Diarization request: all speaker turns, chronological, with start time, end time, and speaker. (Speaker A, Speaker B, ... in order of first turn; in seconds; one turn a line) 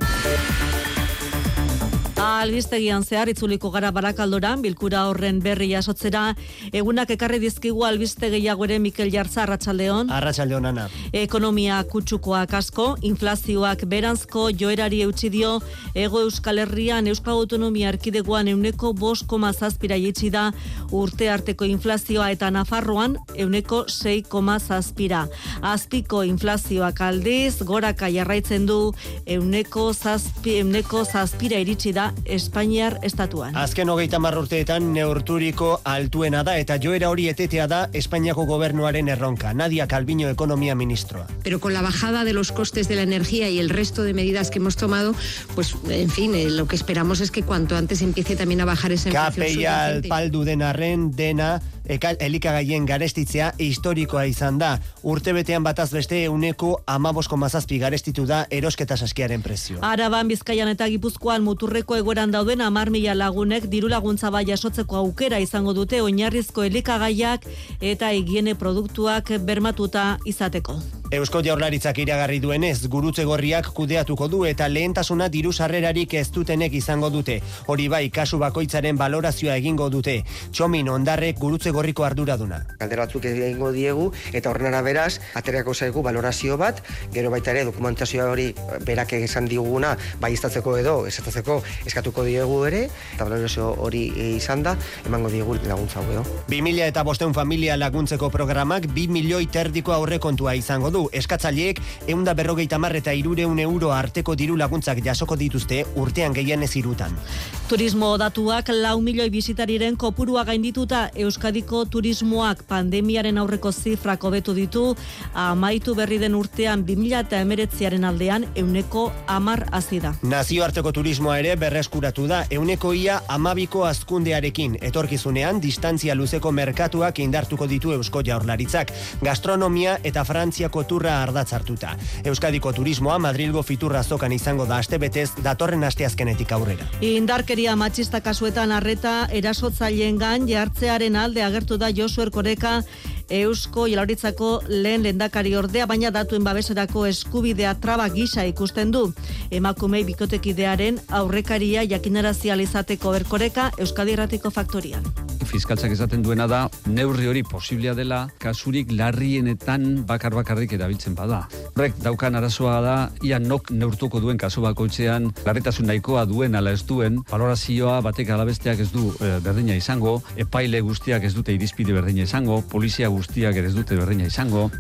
Speaker A: 2.2-10.1
Speaker B: 10.1-10.9
Speaker A: 11.1-33.6
Speaker B: 33.5-41.3
Speaker C: 41.4-50.2
Speaker B: 49.1-59.8
Speaker A: 59.8-70.8
Speaker B: 71.1-82.7
Speaker D: 82.8-96.3
Speaker B: 96.5-107.2
Speaker A: 107.7-120.2
Speaker B: 120.2-136.9
Speaker A: 137.0-155.1
Speaker E: 155.4-174.7